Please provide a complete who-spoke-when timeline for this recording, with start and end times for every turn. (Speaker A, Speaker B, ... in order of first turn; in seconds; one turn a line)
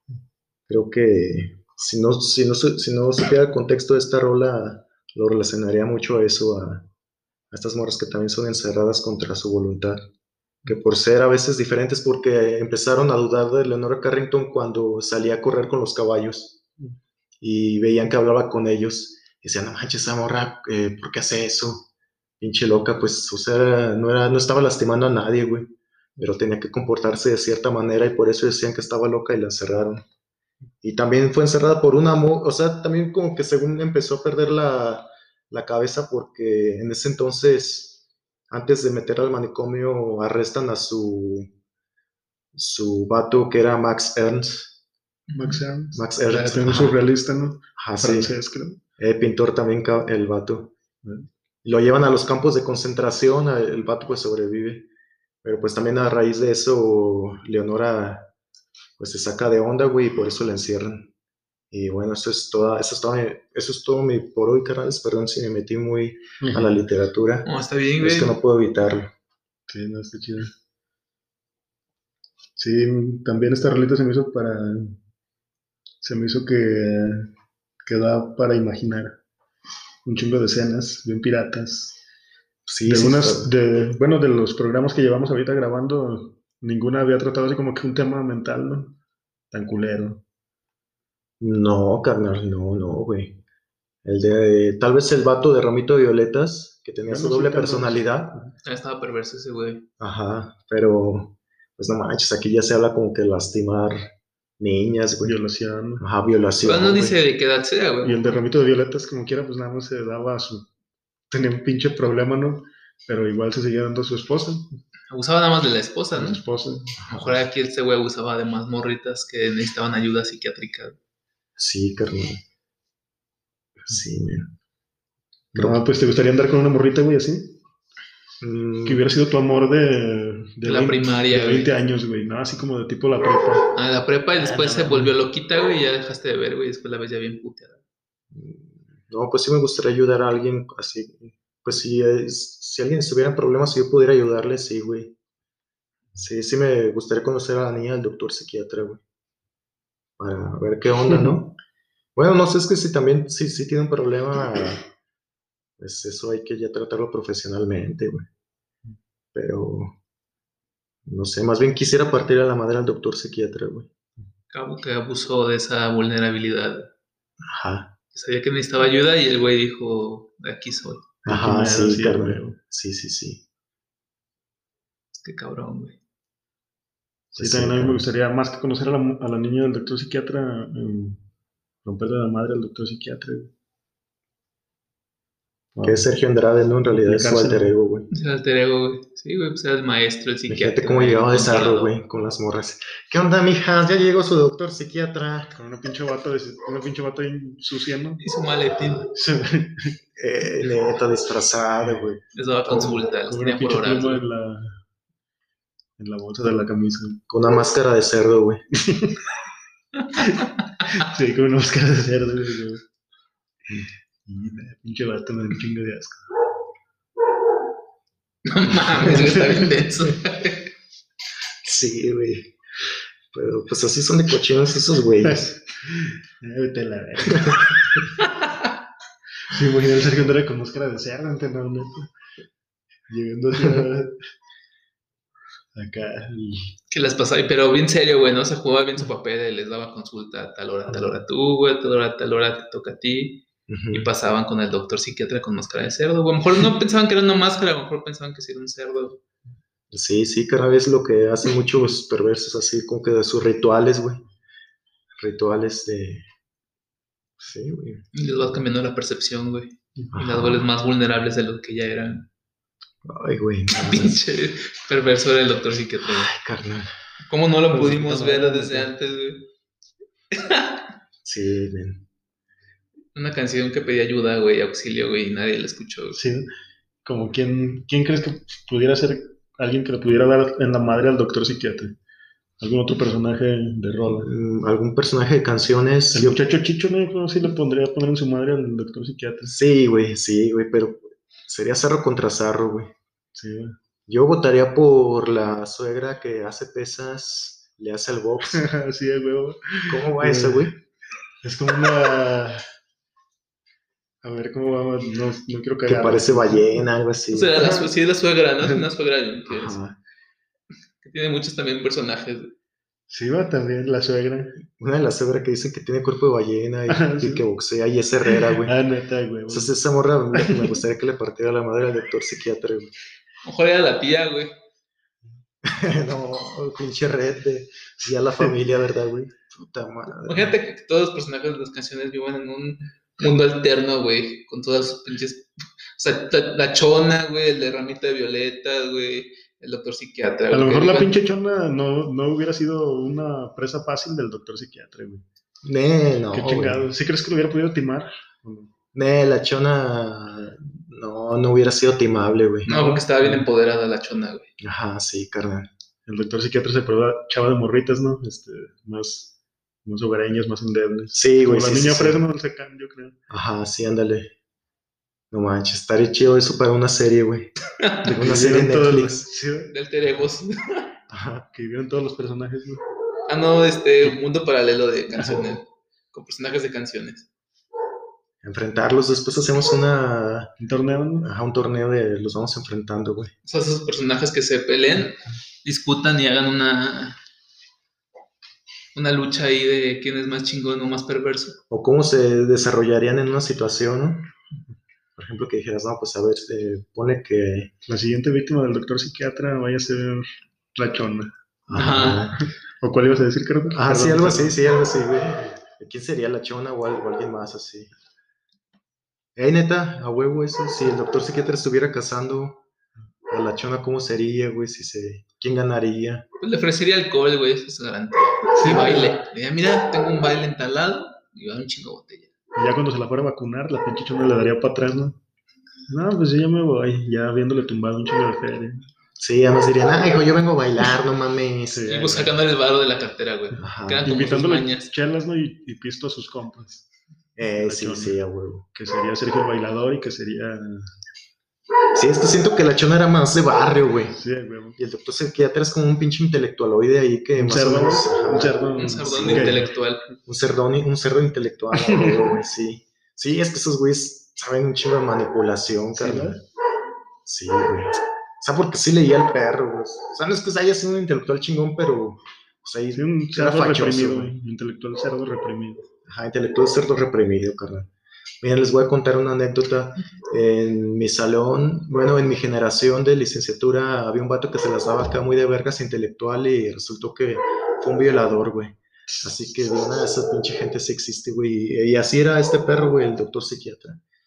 Speaker A: 0.7-6.9
Speaker A: 7.5-10.0
Speaker A: 10.7-16.6
Speaker A: 17.4-21.9
Speaker A: 22.4-30.0
Speaker A: 30.8-38.0
Speaker A: 38.5-41.5
Speaker A: 42.5-44.8
Speaker B: 45.3-45.6
Speaker C: 45.3-48.8
Speaker A: 45.9-47.0
Speaker A: 47.8-48.3
Speaker A: 49.0-50.7
Speaker A: 51.6-54.9
Speaker A: 55.4-58.3
Speaker A: 59.0-61.1
Speaker A: 61.7-67.5
Speaker C: 66.4-66.8
Speaker B: 67.5-68.4
Speaker A: 68.0-69.1
Speaker C: 69.7-70.5
Speaker C: 72.6-75.0
Speaker C: 76.0-77.3
Speaker C: 77.8-79.2
Speaker C: 80.0-82.0
Speaker A: 82.7-83.5
Speaker C: 82.8-89.0
Speaker C: 89.5-90.2
Speaker A: 91.4-93.4
Speaker A: 94.0-98.4
Speaker C: 97.1-98.5
Speaker B: 98.7-99.8
Speaker A: 100.0-105.4
Speaker C: 105.2-106.0
Speaker A: 106.0-107.2
Speaker B: 106.6-108.4
Speaker C: 108.0-110.7
Speaker C: 111.3-114.8
Speaker B: 115.1-116.4
Speaker C: 116.1-117.0
Speaker A: 117.0-117.4
Speaker B: 117.1-121.0
Speaker A: 121.6-122.4
Speaker A: 123.8-124.5
Speaker C: 125.5-127.6
Speaker A: 125.5-125.8
Speaker A: 128.4-129.1
Speaker C: 128.8-133.7
Speaker B: 130.6-131.7
Speaker B: 133.8-137.8
Speaker A: 134.4-135.1
Speaker A: 138.3-145.2
Speaker A: 146.2-149.0
Speaker A: 150.2-151.6
Speaker C: 151.1-151.4
Speaker A: 152.2-154.9
Speaker A: 155.8-158.3
Speaker A: 159.3-159.9
Speaker A: 161.1-163.9
Speaker B: 164.5-166.9
Speaker A: 167.4-167.9
Speaker B: 168.1-171.1
Speaker C: 171.2-172.6
Speaker A: 171.2-173.4
Speaker B: 175.1-176.0
Speaker C: 177.3-181.2
Speaker A: 177.3-178.1
Speaker C: 181.8-183.5
Speaker C: 185.8-186.1
Speaker A: 185.8-188.1
Speaker C: 186.9-187.7
Speaker B: 188.1-191.9
Speaker A: 190.5-195.5
Speaker C: 195.5-198.2
Speaker B: 198.2-199.1
Speaker C: 199.1-200.0
Speaker A: 200.2-202.2
Speaker B: 202.3-204.2
Speaker C: 202.8-204.8
Speaker C: 206.0-207.2
Speaker A: 207.3-208.6
Speaker C: 208.7-209.3
Speaker C: 210.2-212.8
Speaker C: 213.7-216.2
Speaker B: 218.4-220.7
Speaker C: 219.2-219.6
Speaker A: 221.6-222.6
Speaker A: 223.3-225.5
Speaker C: 225.2-228.0
Speaker A: 227.3-228.1
Speaker B: 228.2-228.7
Speaker C: 229.4-232.1
Speaker C: 233.1-234.2
Speaker C: 235.8-236.8
Speaker B: 236.9-249.2
Speaker A: 243.7-244.1
Speaker A: 249.9-254.2
Speaker A: 255.2-256.3
Speaker A: 257.4-258.0
Speaker B: 258.1-262.2
Speaker A: 260.1-260.7
Speaker A: 263.0-264.2
Speaker B: 263.7-266.3
Speaker A: 266.0-266.9
Speaker B: 267.2-269.5
Speaker C: 267.7-268.9
Speaker B: 270.3-270.9
Speaker A: 271.2-272.1
Speaker B: 273.1-276.2
Speaker C: 276.1-276.5
Speaker C: 277.1-281.9
Speaker C: 282.6-284.3
Speaker A: 284.1-286.4
Speaker C: 286.1-289.6
Speaker A: 289.5-292.9
Speaker C: 293.4-293.8
Speaker A: 294.1-298.7
Speaker C: 298.5-300.7
Speaker A: 299.9-300.8
Speaker C: 301.4-302.7
Speaker C: 304.2-306.8
Speaker A: 305.9-307.8
Speaker B: 307.3-309.8
Speaker A: 309.5-310.0
Speaker B: 311.0-312.5
Speaker C: 313.1-314.6
Speaker A: 314.7-318.8
Speaker C: 316.9-317.4
Speaker C: 318.3-319.8
Speaker A: 319.5-322.9
Speaker C: 320.3-320.8
Speaker B: 323.4-324.5
Speaker A: 325.6-330.5
Speaker B: 330.2-341.1
Speaker C: 340.5-345.2
Speaker A: 345.6-346.9
Speaker C: 346.3-348.7
Speaker A: 348.9-352.7
Speaker C: 352.7-353.5
Speaker B: 352.7-354.5
Speaker A: 354.6-355.7
Speaker C: 356.1-359.3
Speaker C: 359.9-363.2
Speaker A: 361.1-362.2
Speaker A: 363.3-364.3
Speaker A: 365.3-367.5
Speaker B: 367.8-368.1
Speaker C: 368.0-369.7
Speaker A: 368.1-369.3
Speaker B: 369.7-370.9
Speaker A: 371.1-371.5
Speaker C: 371.5-372.8
Speaker B: 373.3-377.3
Speaker C: 375.1-375.6
Speaker A: 378.4-380.5
Speaker C: 380.6-381.3
Speaker A: 381.2-383.3
Speaker B: 383.4-387.2
Speaker B: 388.9-391.6
Speaker A: 391.7-394.3
Speaker A: 395.2-397.7
Speaker C: 397.9-401.3
Speaker A: 401.7-402.4
Speaker B: 401.7-402.3
Speaker C: 402.8-404.6
Speaker A: 403.7-407.9
Speaker A: 409.4-412.6
Speaker A: 413.3-416.3
Speaker B: 416.4-422.3
Speaker C: 418.6-419.2
Speaker C: 422.6-425.2
Speaker C: 425.9-428.9
Speaker A: 429.2-431.9
Speaker C: 431.7-432.4
Speaker B: 431.9-434.9
Speaker A: 433.6-434.1
Speaker C: 434.0-436.9
Speaker A: 437.4-438.7
Speaker C: 437.4-438.2
Speaker C: 438.7-441.0
Speaker A: 441.9-444.2
Speaker C: 444.2-444.8
Speaker A: 444.8-449.6
Speaker C: 447.4-449.7
Speaker B: 448.8-450.1
Speaker A: 450.3-456.4
Speaker C: 451.7-452.4
Speaker C: 455.9-456.4
Speaker A: 457.2-464.4
Speaker C: 462.9-465.9
Speaker A: 466.1-467.9
Speaker A: 468.4-484.0